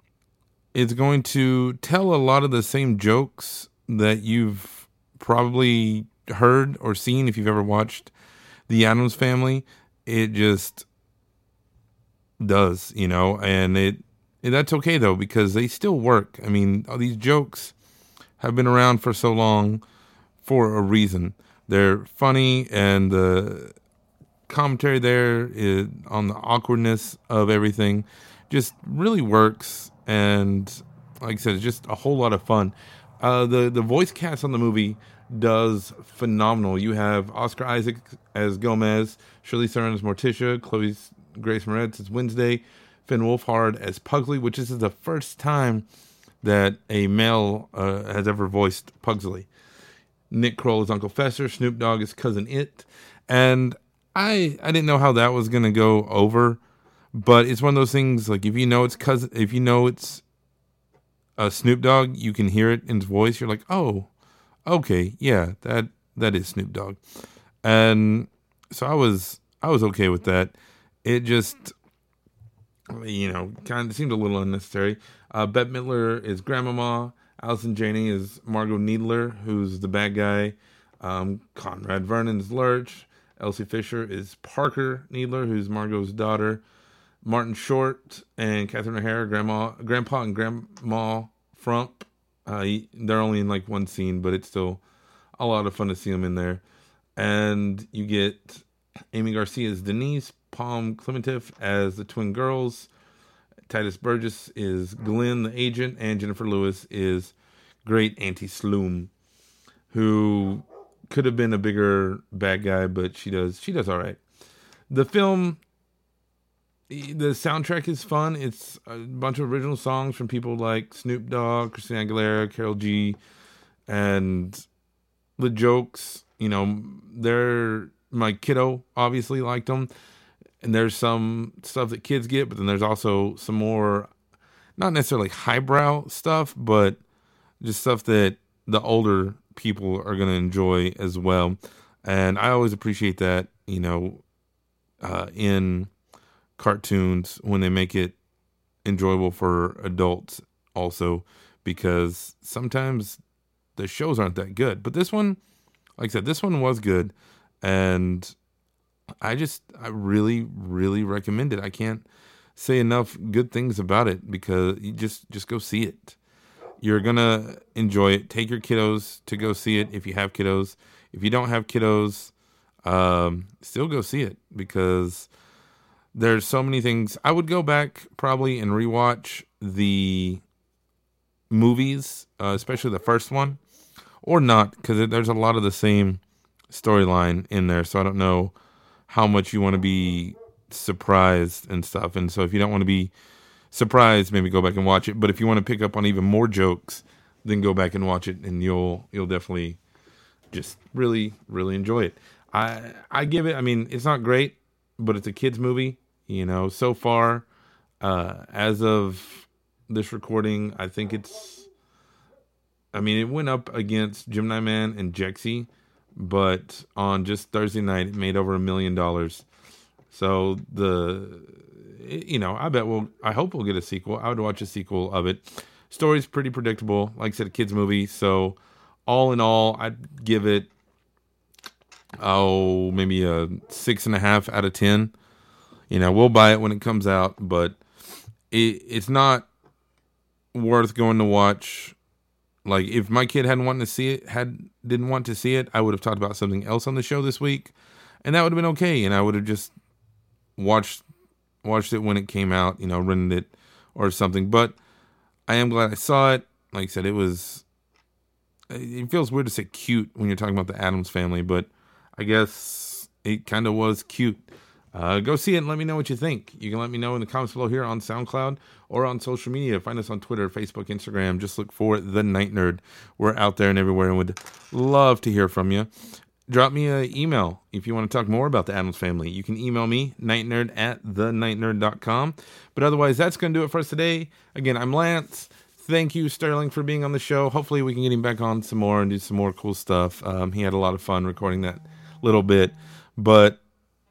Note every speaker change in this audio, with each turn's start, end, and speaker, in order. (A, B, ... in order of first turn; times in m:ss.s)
0:00.7-0:08.1 A
0:08.7-0:10.8 A
0:12.4-0:17.7 A
0:18.4-0:19.8 A
0:20.4-0:23.7 A
0:24.5-0:45.8 A
0:46.4-0:49.5 A
0:50.3-0:56.6 A
0:57.1-1:00.2 A
1:01.4-1:04.1 A
1:04.6-1:07.0 A
1:07.6-1:11.7 A
1:12.9-1:26.6 A
1:27.2-1:34.8 A
1:35.4-1:36.6 A
1:37.2-1:42.9 A
1:43.7-1:49.1 A
1:49.9-1:54.2 A
1:54.9-1:55.6 A
1:56.9-2:03.2 A
2:03.9-2:04.6 A
2:05.4-2:09.9 A
2:10.6-2:14.1 A
2:14.8-2:17.0 A
2:17.6-2:24.2 A
2:25.0-2:25.9 A
2:26.6-2:28.2 A
2:28.8-2:33.2 A
2:33.8-2:35.4 A
2:36.0-2:38.3 A
2:39.2-2:42.0 A
2:42.6-2:46.2 A
2:46.8-2:52.3 A
2:52.8-2:55.3 A
2:56.1-3:00.4 A
3:01.5-3:03.6 A
3:04.2-3:08.5 A
3:09.1-3:13.1 A
3:13.7-3:19.8 A
3:20.5-3:27.5 A
3:28.0-3:31.7 A
3:32.9-3:39.4 A
3:40.1-3:50.7 A
3:52.2-3:55.1 A
3:55.9-3:57.8 A
3:58.5-3:59.5 A
4:00.5-4:02.0 A
4:02.6-4:09.7 A
4:10.6-4:11.0 A
4:11.6-4:14.8 A
4:15.5-4:17.6 A
4:18.7-4:24.4 A
4:24.9-4:35.9 A
4:36.5-4:53.6 A